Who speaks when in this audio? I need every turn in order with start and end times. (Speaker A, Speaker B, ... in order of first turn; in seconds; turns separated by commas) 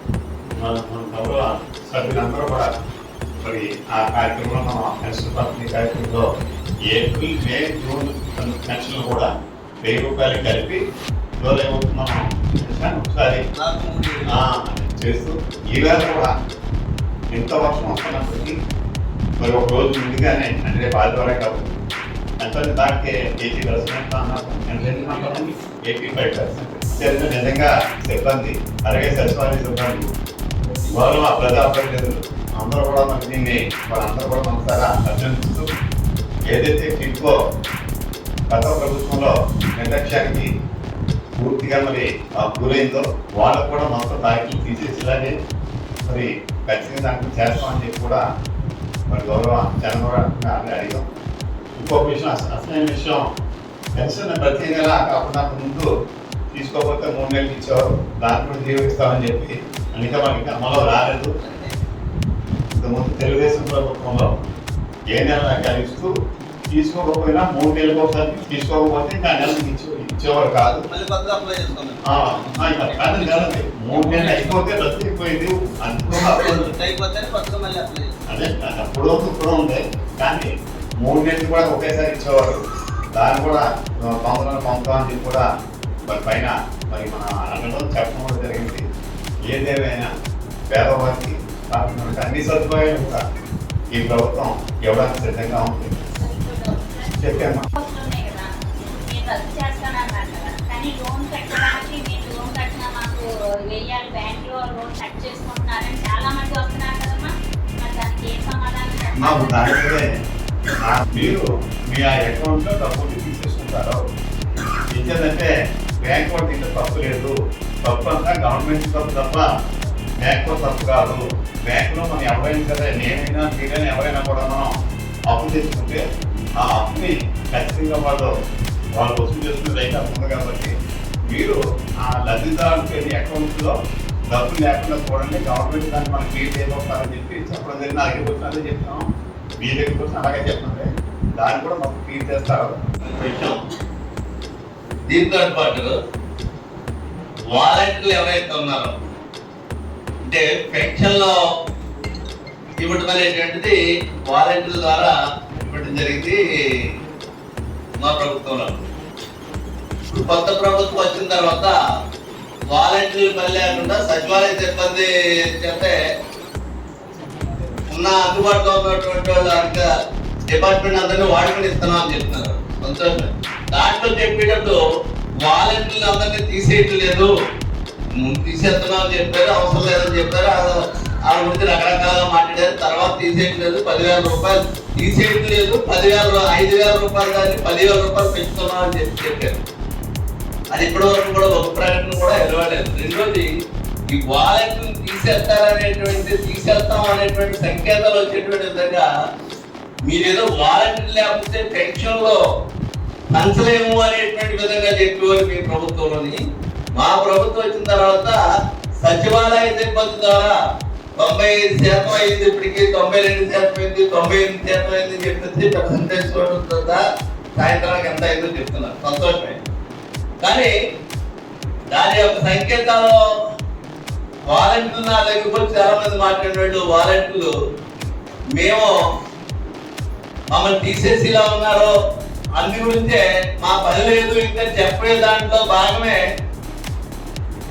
Speaker A: 0.6-2.7, Speaker A: 3.4-6.2, Speaker A: 6.9-9.3, Speaker A: 9.8-10.8, Speaker A: 11.4-13.4, Speaker B: 13.6-14.4, Speaker A: 14.3-16.3, Speaker A: 17.3-18.6, Speaker A: 19.4-21.8, Speaker A: 22.4-30.1, Speaker A: 30.9-35.7, Speaker A: 36.5-37.3, Speaker A: 38.5-40.5, Speaker A: 41.3-45.3, Speaker A: 46.0-48.2, Speaker A: 49.1-51.0, Speaker A: 51.8-53.2, Speaker A: 53.9-55.9, Speaker A: 56.5-61.3, Speaker B: 61.4-61.7, Speaker A: 62.7-64.3, Speaker A: 65.1-66.1, Speaker A: 66.7-70.8, Speaker B: 70.9-74.6, Speaker A: 72.0-76.7, Speaker B: 76.3-78.2, Speaker A: 78.3-80.5, Speaker A: 81.0-82.6, Speaker A: 83.1-85.4, Speaker A: 86.1-88.8, Speaker A: 89.5-90.1, Speaker A: 90.7-93.2, Speaker A: 93.9-95.9, Speaker C: 96.1-97.2, Speaker A: 97.2-97.6, Speaker C: 97.8-109.7, Speaker A: 109.2-110.1, Speaker A: 110.8-114.0, Speaker A: 114.9-119.5, Speaker A: 120.2-124.7, Speaker A: 125.3-126.0, Speaker A: 126.6-128.3, Speaker A: 129.0-130.7, Speaker A: 131.3-133.7, Speaker A: 134.3-139.0, Speaker A: 139.6-142.7, Speaker B: 143.2-143.6, Speaker B: 145.1-145.9, Speaker B: 147.5-148.9, Speaker B: 150.3-151.3, Speaker B: 152.8-156.4, Speaker B: 158.0-158.8, Speaker B: 160.1-161.7, Speaker B: 162.7-165.9, Speaker B: 167.9-169.9, Speaker B: 170.5-174.8, Speaker B: 175.4-177.3, Speaker B: 178.2-180.7, Speaker B: 181.3-189.6, Speaker B: 190.7-193.5, Speaker B: 194.1-199.1, Speaker B: 200.1-202.4, Speaker B: 203.3-206.4, Speaker B: 206.9-208.4, Speaker B: 209.0-210.5, Speaker B: 211.2-217.0, Speaker B: 217.6-219.6, Speaker B: 220.4-220.7, Speaker B: 221.9-223.2, Speaker B: 224.5-227.5, Speaker B: 228.6-228.9, Speaker B: 230.5-231.9, Speaker B: 232.6-236.2